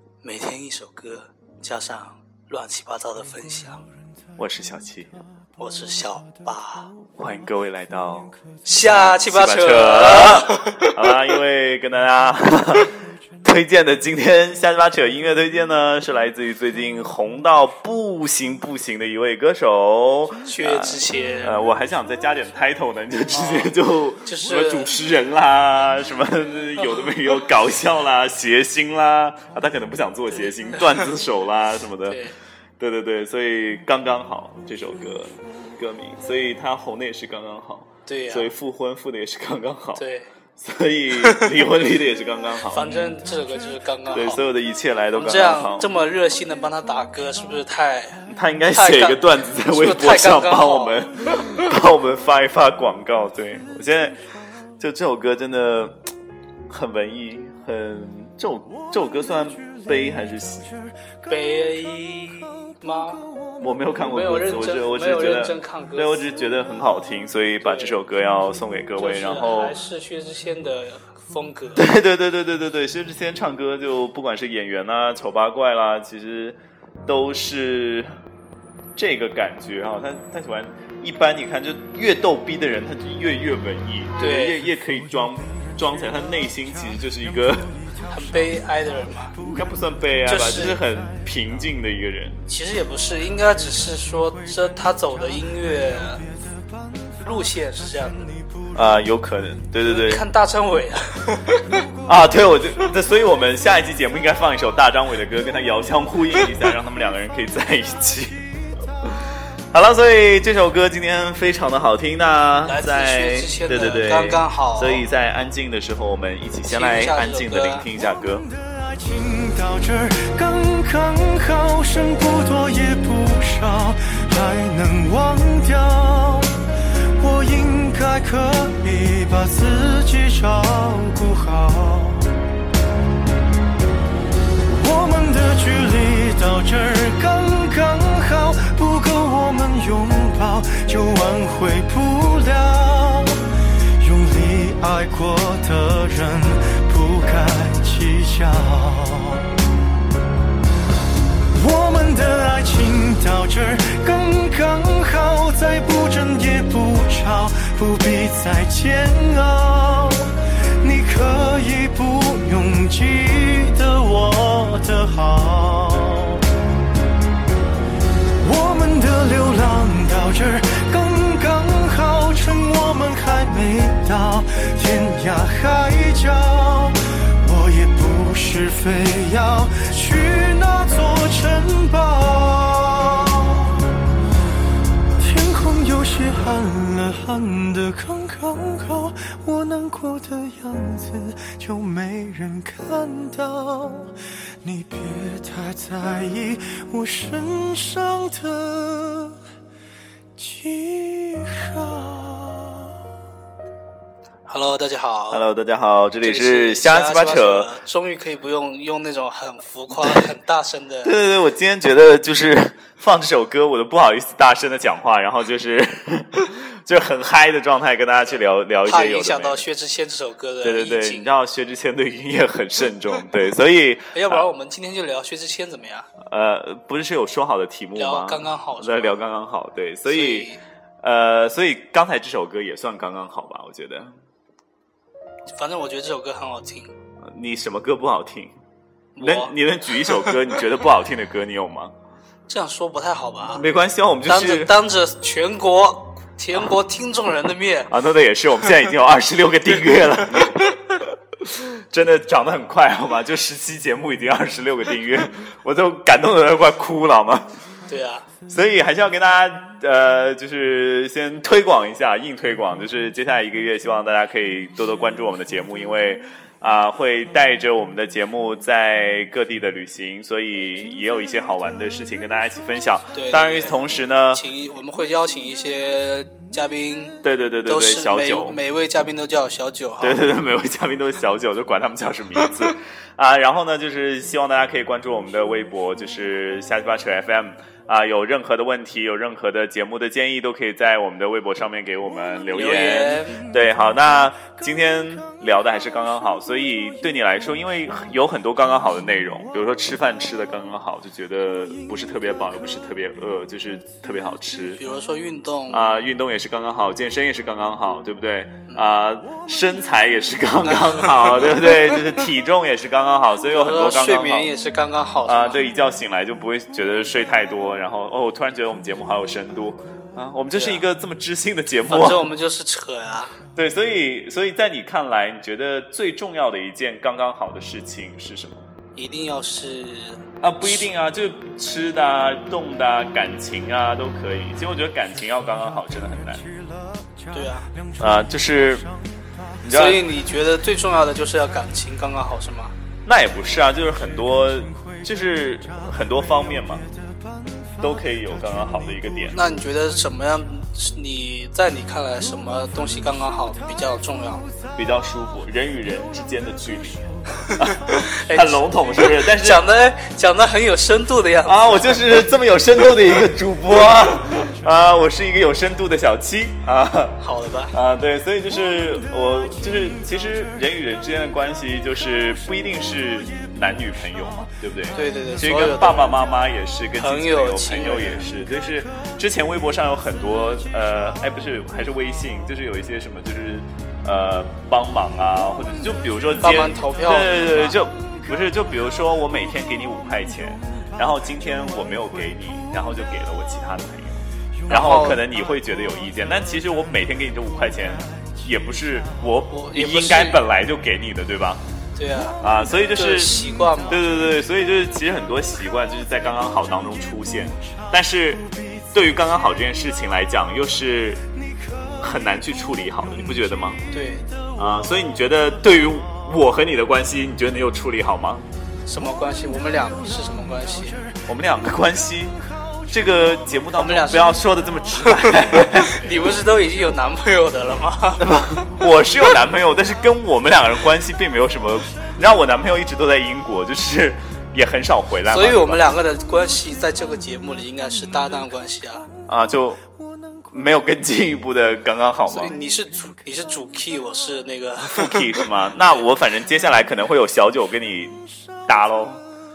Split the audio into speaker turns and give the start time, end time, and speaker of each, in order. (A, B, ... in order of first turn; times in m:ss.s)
0:00.2-0:03.8 A
0:04.4-0:05.2 B
0:05.6-0:06.9 A
0:07.2-0:12.9 B
0:08.6-0:11.0 A
0:13.4-0:32.2 B
0:20.4-0:21.6 A
0:23.4-0:23.7 A
0:24.3-0:24.9 A
0:32.1-0:32.4 A
0:32.8-0:40.0 B
0:38.1-0:38.5 A
0:40.0-0:40.3 A
0:40.6-0:43.2 B
0:42.7-0:44.4 A
0:44.1-0:45.9 B
0:45.2-0:51.0 A
0:48.3-0:54.2 B
0:54.8-0:56.0 B
0:56.7-1:00.7 B
1:01.3-1:03.2 A
1:03.6-1:09.8 B
1:04.0-1:06.2 A
1:07.6-1:08.0 A
1:09.0-1:11.9 A
1:11.8-1:18.1 B
1:19.0-1:27.8 B
1:24.2-1:24.6 A
1:28.1-1:29.4 A
1:29.4-1:32.4 B
1:30.3-1:30.8 A
1:32.5-1:36.2 A
1:37.2-1:38.4 A
1:38.7-1:40.2 B
1:39.8-1:41.8 A
1:42.1-1:48.4 B
1:49.7-1:58.5 B
1:52.7-1:55.0 A
1:56.6-1:57.9 A
1:58.6-2:06.6 C
2:07.2-2:12.4 C
2:14.7-2:23.5 C
2:24.0-2:29.5 C
2:31.6-2:46.5 C
2:48.4-3:03.8 C
3:05.2-3:19.4 C
3:20.4-3:22.9 C
3:24.5-3:25.4 A
3:25.3-3:27.7 B
3:26.2-3:31.2 A
3:31.0-3:39.6 B
3:38.9-3:41.3 A
3:40.6-3:44.4 B
3:44.1-3:46.1 A
3:46.2-3:50.5 B
3:48.0-3:49.1 A
3:50.1-3:50.6 A
3:51.0-3:54.1 B
3:55.5-3:56.9 A
3:57.2-3:58.5 B
3:59.2-3:59.6 A
3:59.2-4:01.9 B
4:02.5-4:03.6 A
4:03.5-4:04.7 B
4:04.3-4:07.9 A
4:07.9-4:17.5 B
4:17.9-4:18.3 A
4:18.5-4:34.4 B
4:33.1-4:33.8 A
4:34.3-4:40.2 A
4:37.2-4:38.6 B
4:40.0-5:04.8 B
4:52.5-4:53.4 A
5:04.8-5:05.8 A
5:05.7-5:14.5 B
5:10.6-5:12.0 A
5:13.4-5:15.6 A
5:15.2-5:22.3 B
5:20.5-5:20.8 A
5:21.9-5:23.4 A
5:23.6-5:28.6 B
5:29.0-5:30.8 A
5:30.4-5:36.5 B
5:37.3-5:37.7 A
5:38.0-5:38.9 B
5:39.6-5:40.0 B
5:39.7-5:42.7 A
5:43.1-5:46.8 B
5:47.8-5:49.4 B
5:49.3-5:54.5 A
5:54.8-5:59.6 B
5:57.5-6:02.1 A
6:01.4-6:07.2 B
6:07.2-6:07.7 A
6:07.7-6:41.6 B
6:14.9-6:16.2 A
6:17.0-6:18.3 A
6:26.4-6:27.8 A
6:34.7-6:35.2 A
6:39.5-6:40.4 A
6:42.0-6:42.4 A
6:42.4-6:51.2 B
6:42.9-6:44.1 A
6:52.0-6:53.8 B
6:53.9-6:54.3 A
6:54.6-6:58.5 B
6:58.9-7:01.1 A
7:01.3-7:02.4 B
7:02.9-7:06.2 B
7:03.8-7:04.4 A
7:05.0-7:08.4 A
7:08.2-7:15.9 B
7:15.3-7:19.1 A
7:19.3-7:19.8 B
7:20.5-7:22.6 B
7:22.3-7:25.9 A
7:24.9-7:29.2 B